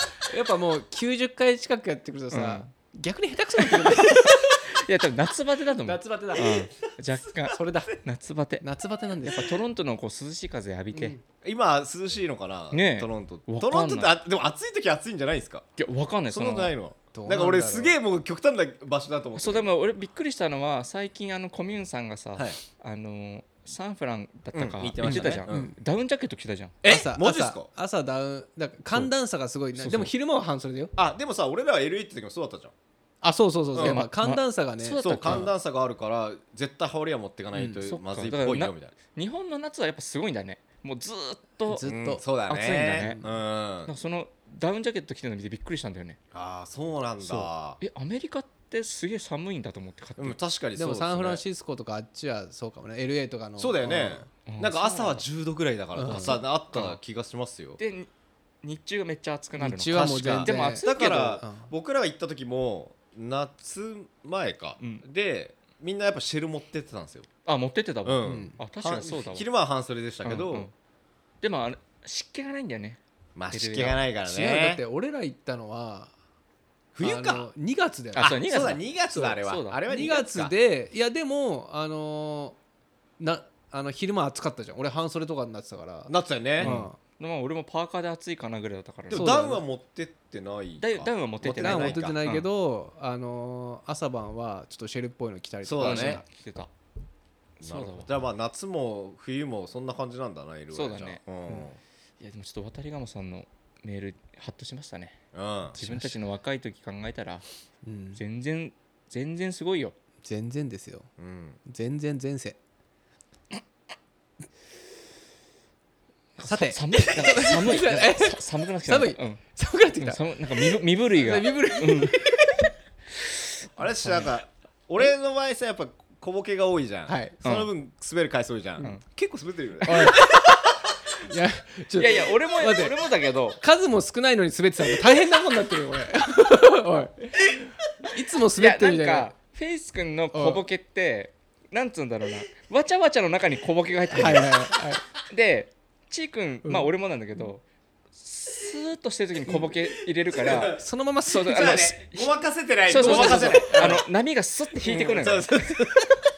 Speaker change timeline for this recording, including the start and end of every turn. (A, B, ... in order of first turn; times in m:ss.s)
0:00.3-0:04.7 A
0:02.3-0:02.7 B
0:03.6-0:08.6 B
0:05.9-0:06.7 A
0:06.3-0:06.7 C
0:07.5-0:08.0 A
0:08.6-0:09.6 A
0:09.2-0:11.2 B
0:10.9-0:11.2 A
0:11.4-0:15.6 C
0:12.7-0:14.1 B
0:15.8-0:16.7 B
0:16.3-0:19.7 C
0:17.1-0:18.0 A
0:19.4-0:26.8 B
0:24.5-0:25.7 C
0:25.0-0:25.7 A
0:26.8-0:27.7 C
0:26.8-0:30.9 A
0:29.8-0:30.1 B
0:31.0-0:32.7 C
0:33.2-0:35.5 A
0:33.7-0:34.0 C
0:33.8-0:35.5 B
0:35.0-0:39.0 C
0:37.5-0:37.8 A
0:37.8-0:41.9 B
0:41.7-0:42.2 A
0:41.9-0:43.9 C
0:42.5-0:43.2 B
0:43.0-0:43.3 A
0:43.8-0:46.2 B
0:46.3-0:47.8 C
0:47.2-0:50.4 B
0:50.2-0:51.4 C
0:50.8-0:54.3 A
0:53.6-0:57.8 C
0:54.5-0:55.2 B
0:56.0-0:56.4 A
0:56.1-0:57.0 B
0:57.8-0:58.1 B
0:58.6-1:01.3 B
0:59.6-1:01.7 A
0:59.9-1:07.3 C
1:07.4-1:09.5 B
1:08.0-1:10.7 C
1:08.2-1:08.6 A
1:10.2-1:10.7 B
1:11.4-1:13.0 B
1:13.4-1:14.8 C
1:13.5-1:14.0 B
1:14.2-1:16.1 A
1:17.0-1:17.5 C
1:17.0-1:18.4 A
1:18.2-1:19.8 B
1:18.2-1:20.5 C
1:19.9-1:22.6 A
1:23.2-1:27.0 A
1:26.1-1:26.8 C
1:26.6-1:29.4 B
1:29.1-1:32.2 C
1:29.1-1:29.6 A
1:30.8-1:32.5 B
1:31.6-1:36.2 A
1:35.6-1:36.2 C
1:35.8-1:36.7 B
1:37.6-1:38.1 B
1:37.6-1:41.8 C
1:40.7-1:41.2 B
1:42.2-1:45.2 B
1:45.3-1:45.8 C
1:45.8-1:47.4 B
1:45.8-1:46.1 A
1:47.8-1:48.2 A
1:48.2-1:50.0 B
1:50.2-1:51.1 A
1:51.2-1:51.6 C
1:51.6-1:52.6 A
1:56.4-1:59.4 B
1:56.4-2:02.7 A
2:00.0-2:02.3 B
2:03.8-2:10.7 C
2:07.1-2:07.4 A
2:07.4-2:07.7 B
2:09.8-2:10.3 A
2:11.2-2:12.9 A
2:12.0-2:13.6 B
2:13.6-2:17.5 A
2:18.0-2:19.3 A
2:18.6-2:24.7 B
2:20.3-2:20.6 A
2:24.1-2:25.0 A
2:25.2-2:27.6 B
2:28.2-2:32.3 B
2:30.4-2:30.8 C
2:30.8-2:31.9 A
2:31.5-2:34.0 C
2:32.9-2:36.1 B
2:33.0-2:34.0 A
2:34.8-2:36.1 C